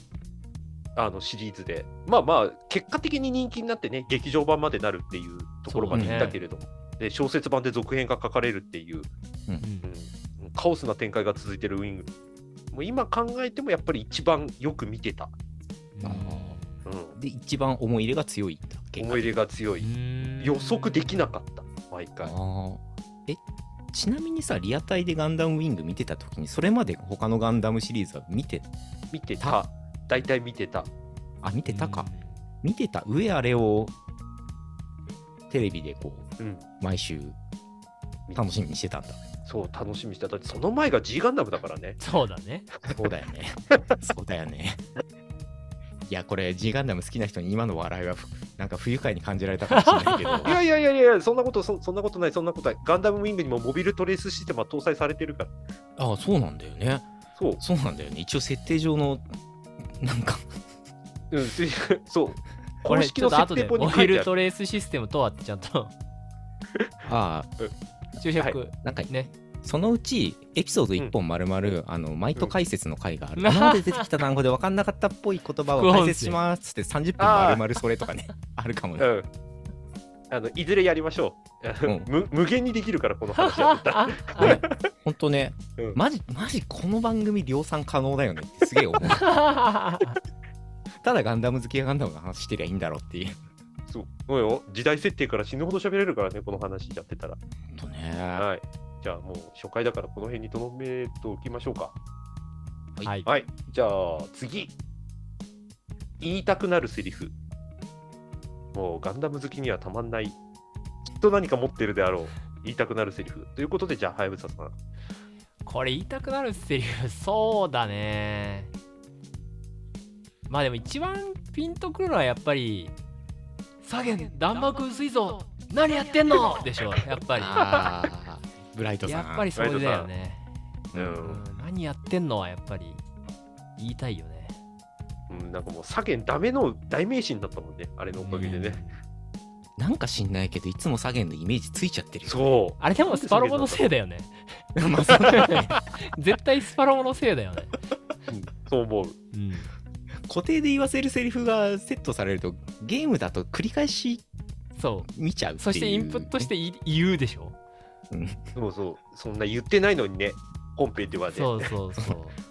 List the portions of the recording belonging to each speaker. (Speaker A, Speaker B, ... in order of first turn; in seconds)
Speaker A: 1.0-9.1, 9.8-12.1, 12.7-15.3, 16.9-17.1, 19.0-19.9, 20.4-22.4, 29.1-30.9, 36.4-36.7, 39.5-42.0, 42.9-43.1, 50.4-55.5, 61.3-64.3, 77.2-77.6, 79.0-79.3, 80.3-84.8, 93.9-97.4, 98.4-101.9, 103.3-104.7, 106.2-107.3, 108.7-110.4, 111.1-114.7, 129.6-130.1, 130.9-131.4, 135.3-138.8, 142.3-143.8, 148.3-149.2, 158.6-161.5
Speaker B: 5.7-6.4, 9.6-9.9, 15.9-16.9, 19.8-21.3, 31.7-32.4, 42.0-42.7, 49.7-50.5, 62.9-65.9, 68.2-69.3, 73.4-74.1, 75.7-76.4, 83.4-84.6, 89.0-90.2, 103.0-103.3, 115.7-118.7, 120.5-122.9, 123.8-127.7, 129.0-130.5, 131.2-133.0, 133.8-134.6, 138.2-139.0, 142.8-144.6, 145.3-147.8, 149.3-149.7, 154.8-157.6, 161.3-162.4
Speaker C: 5.9-6.4, 16.0-16.6, 17.1-19.3, 22.2-23.4, 23.9-28.7, 31.4-32.1, 32.6-33.9, 35.5-36.3, 36.8-37.4, 38.4-39.2, 42.9-44.8, 46.1-50.6, 56.0-57.1, 57.6-59.2, 59.9-60.5, 67.0-67.5, 68.8-69.1, 69.6-79.1, 84.4-89.3, 91.0-93.4, 97.7-98.5, 127.3-129.5, 130.9-131.3, 139.8-142.4, 144.8-145.8, 150.3-154.2, 155.1-156.5, 158.1-158.5